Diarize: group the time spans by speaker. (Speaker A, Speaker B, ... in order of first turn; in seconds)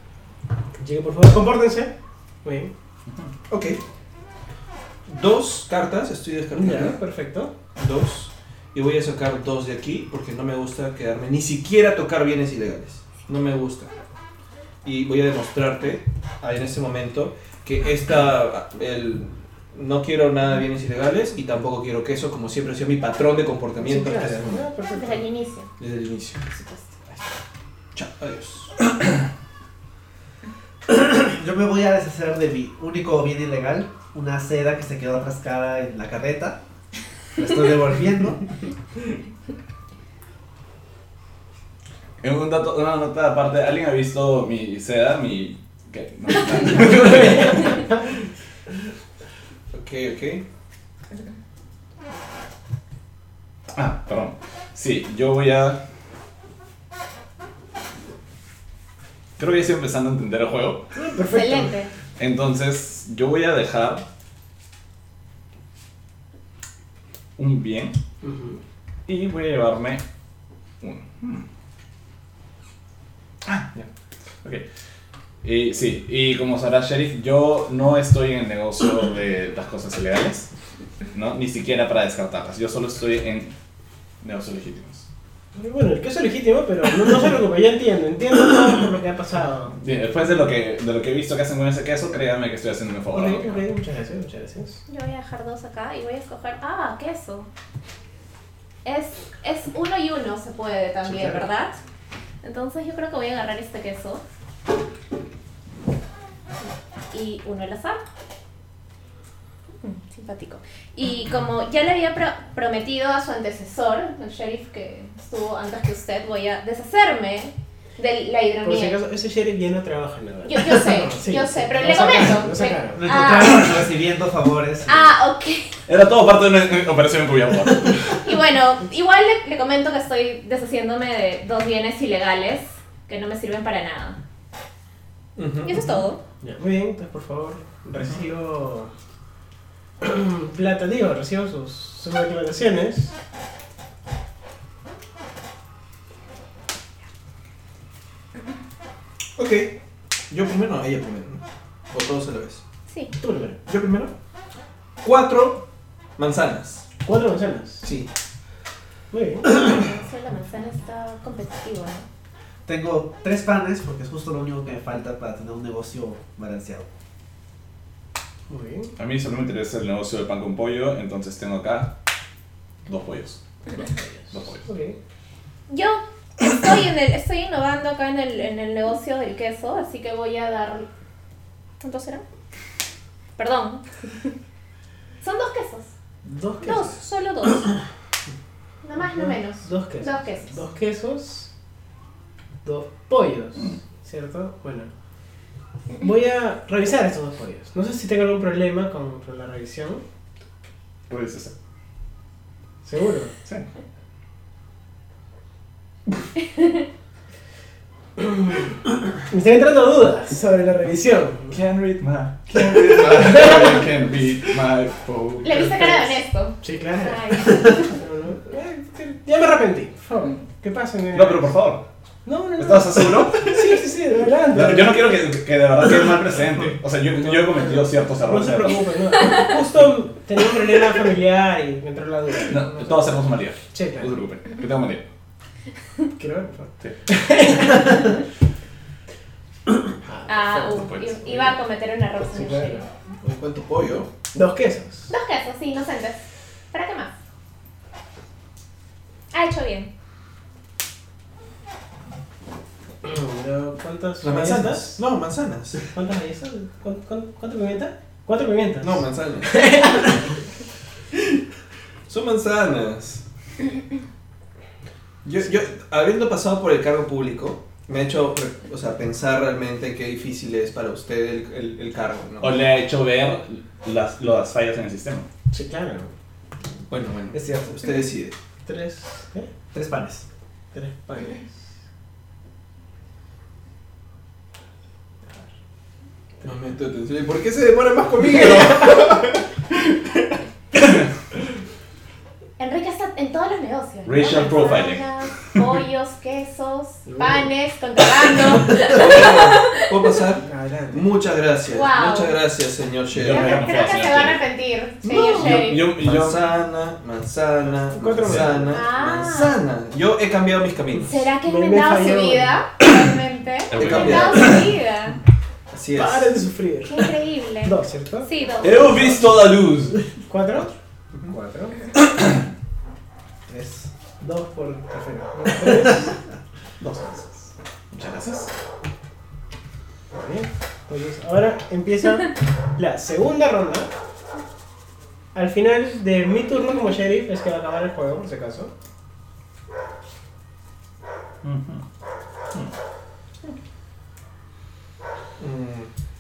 Speaker A: 0.8-1.9, 2.4-2.7, 6.5-7.5, 23.8-25.2, 47.2-47.7, 61.0-61.8, 68.2-68.6, 85.6-89.7, 93.1-94.8, 101.1-101.4, 118.6-123.0, 136.4-138.9, 140.0-143.1, 153.2-153.6, 157.0-157.9, 159.1-159.5, 168.5-168.9, 173.8-175.0, 186.2-187.0, 189.2-191.5, 192.6-194.9, 196.0-200.0, 202.8-203.3, 208.2-208.6, 209.3-211.6, 212.5-213.8, 215.8-221.5, 222.3-225.1, 227.2-233.1, 233.7-234.2, 236.2-238.2, 240.0-241.4, 242.3-242.9, 244.3-245.1, 253.0-255.0, 255.9-260.3, 275.5-276.1, 278.7-279.5, 280.7-281.6, 297.1-297.5, 300.4-301.1, 307.9-308.8, 311.4-312.6, 315.9-317.1, 317.6-318.3, 320.3-321.8, 324.2-326.2, 330.1-333.9, 335.3-338.7
Speaker B: 3.5-3.8, 5.1-7.0, 7.8-13.9, 14.8-24.6, 25.8-26.6, 27.9-28.8, 49.7-50.4, 135.4-135.8, 149.4-149.7, 150.3-152.6, 153.7-154.1, 155.0-155.6, 156.2-156.8, 243.2-244.1, 254.2-255.8, 258.8-259.6, 262.1-263.2, 265.2-272.6, 276.9-278.4, 286.4-289.2, 298.8-303.7, 305.1-311.2, 313.7-314.7, 315.7-316.3, 345.4-345.9
Speaker C: 24.9-25.7, 26.6-26.8, 61.2-61.9, 94.9-97.5, 98.8-101.8, 102.4-104.2, 107.1-108.0, 109.8-119.0, 120.5-123.8, 124.8-125.7, 128.2-134.2, 135.6-136.2, 152.9-153.2, 159.5-162.1, 175.7-180.9, 181.8-182.2, 183.4-183.8, 185.2-185.9, 186.6-187.8, 188.8-190.6, 206.5-206.8, 215.4-217.9, 229.2-229.5, 240.3-242.8, 245.1-246.2, 246.7-247.1, 249.3-249.9, 292.6-299.9, 301.7-302.4, 303.3-305.9, 308.7-309.6, 310.9-315.2, 316.9-319.2
Speaker D: 30.9-36.6, 37.3-38.5, 122.9-125.1, 162.7-166.9, 277.3-277.8, 279.7-280.2, 323.5-323.9
Speaker E: 42.2-47.8, 53.7-55.8, 59.4-60.9, 62.2-64.0, 67.4-68.0, 69.1-70.0, 70.8-71.5, 73.4-73.9, 75.4-80.5, 81.1-83.5, 84.2-85.1, 89.8-93.6, 125.9-128.1, 169.0-171.9, 172.9-173.4, 174.3-174.6, 201.1-201.5, 211.5-215.9, 221.1-221.8, 222.6-223.7, 224.5-228.9, 232.5-235.1, 240.8-241.4, 272.4-275.3, 294.1-295.0, 303.1-304.4, 305.1-306.4, 308.2-308.6, 313.7-314.7, 318.6-320.0, 326.8-328.5, 341.4-341.9